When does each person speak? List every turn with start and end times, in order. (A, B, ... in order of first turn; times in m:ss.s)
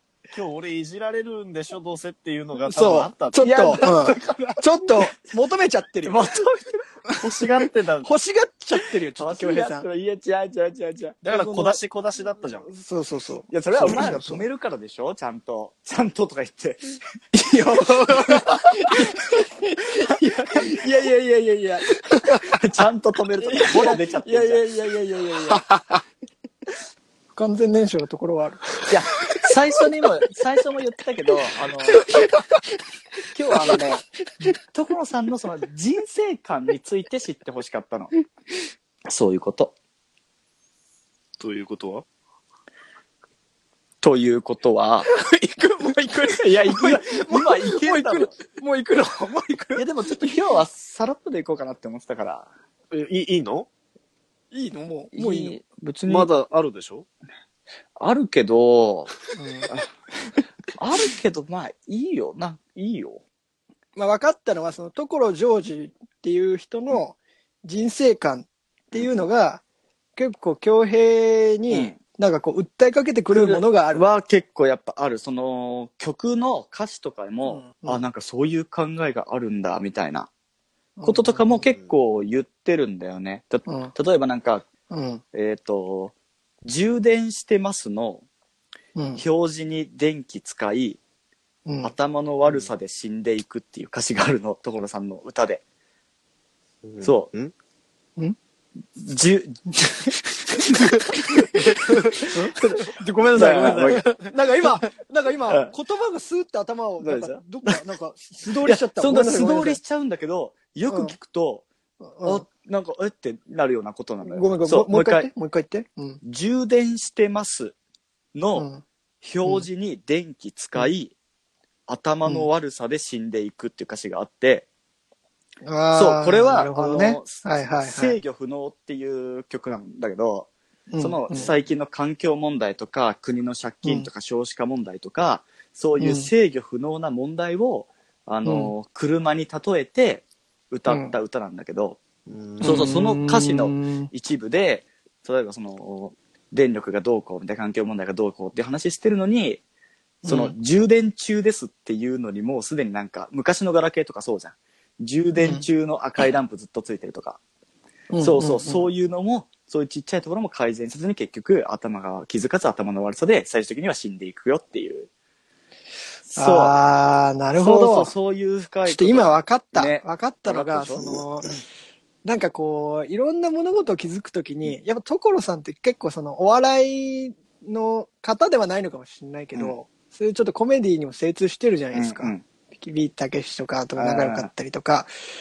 0:00.3-0:03.8 A
0:02.7-0:06.2 B
0:03.4-0:05.1 C
0:06.0-0:08.1 C
0:08.0-0:09.8 B
0:09.2-0:11.2 C
0:11.2-0:11.8 B
0:11.2-0:12.7 A
0:12.7-0:14.4 B
0:13.5-0:17.0 C
0:17.3-0:22.6 B
0:22.4-0:24.6 C
0:23.4-0:25.6 B
0:27.3-0:28.8 B
0:28.9-0:32.1 C
0:33.3-0:38.1 C
0:39.1-0:39.7 C
0:41.4-0:42.0 A
0:44.0-0:45.1 C
0:45.1-0:50.2 B
0:46.4-0:48.3 C
0:49.8-0:52.5 C
0:52.9-0:53.7 A
0:54.5-0:55.6 B
0:55.1-0:56.3 C
0:56.1-0:57.0 A
0:58.0-0:59.2 C
0:59.4-0:59.7 B
1:00.8-1:03.2 C
1:04.0-1:09.6 B
1:10.2-1:14.0 B
1:11.7-1:12.0 C
1:13.3-1:20.3 C
1:17.4-1:18.0 B
1:21.0-1:21.4 B
1:21.0-1:24.6 C
1:23.7-1:23.9 B
1:24.9-1:25.2 B
1:25.3-1:26.1 C
1:26.6-1:28.2 C
1:29.0-1:29.2 B
1:29.2-1:31.0 C
1:31.6-1:31.9 B
1:31.8-1:35.6 C
1:36.8-1:37.5 A
1:37.0-1:37.3 C
1:39.0-1:42.0 C
1:42.2-1:49.8 B
1:43.3-1:44.1 C
1:47.0-1:47.8 C
1:48.6-1:51.6 C
1:50.9-1:51.1 B
1:52.0-1:52.4 B
1:52.2-1:55.3 C
1:54.2-1:56.2 B
1:56.2-1:57.7 C
1:58.3-1:58.7 C
1:58.5-1:58.8 B
1:59.2-2:01.1 C
2:01.9-2:04.6 C
2:05.6-2:08.2 B
2:05.9-2:22.0 C
2:10.9-2:11.5 B
2:16.0-2:16.3 B
2:18.4-2:18.7 B
2:20.9-2:21.1 B
2:22.3-2:22.9 A
2:22.6-2:24.1 B
2:22.6-2:29.6 C
2:30.2-2:30.5 B
2:30.2-2:37.4 C
2:35.4-2:35.6 B
2:38.1-2:38.9 B
2:38.2-2:45.1 C
2:46.3-2:46.8 C
2:46.4-2:48.1 B
2:47.6-2:51.2 C
2:48.8-2:51.5 B
2:52.2-3:05.1 B
3:01.9-3:02.4 C
3:04.0-3:04.5 C